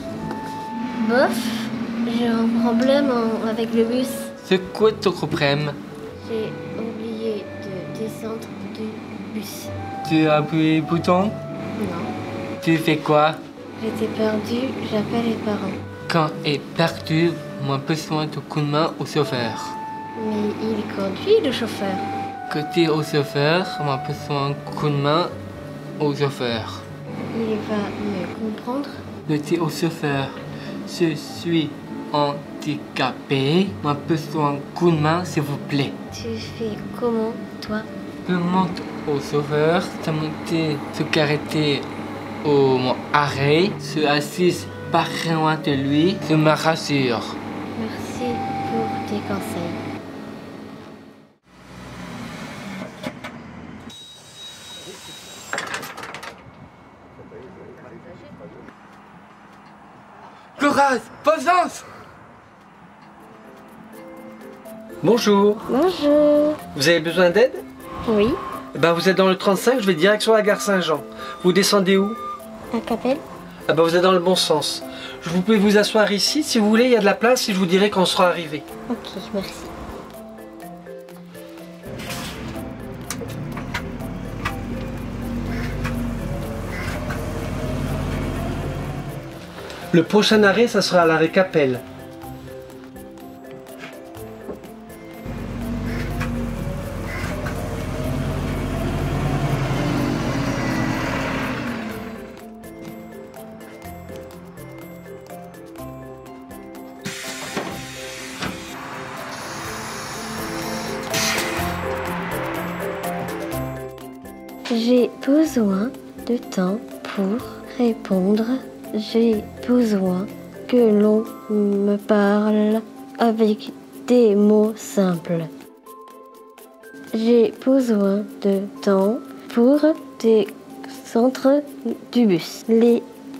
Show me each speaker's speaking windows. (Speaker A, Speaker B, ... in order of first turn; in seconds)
Speaker A: 1.0-4.3, 6.2-9.7, 11.8-12.1, 13.8-15.8, 20.1-22.1, 27.3-29.0, 36.1-37.9, 47.8-49.8, 65.7-66.6, 68.0-68.4, 72.7-73.2, 78.9-79.7, 114.7-125.5, 127.1-133.1
Speaker B: 4.4-5.8, 10.0-11.4, 12.6-13.4, 16.1-19.8, 22.5-25.3, 26.0-26.9, 29.2-35.9, 38.2-41.9, 42.4-47.4, 60.5-61.9
Speaker C: 65.0-65.6, 66.7-67.6, 68.7-72.2, 73.7-78.6, 89.9-91.8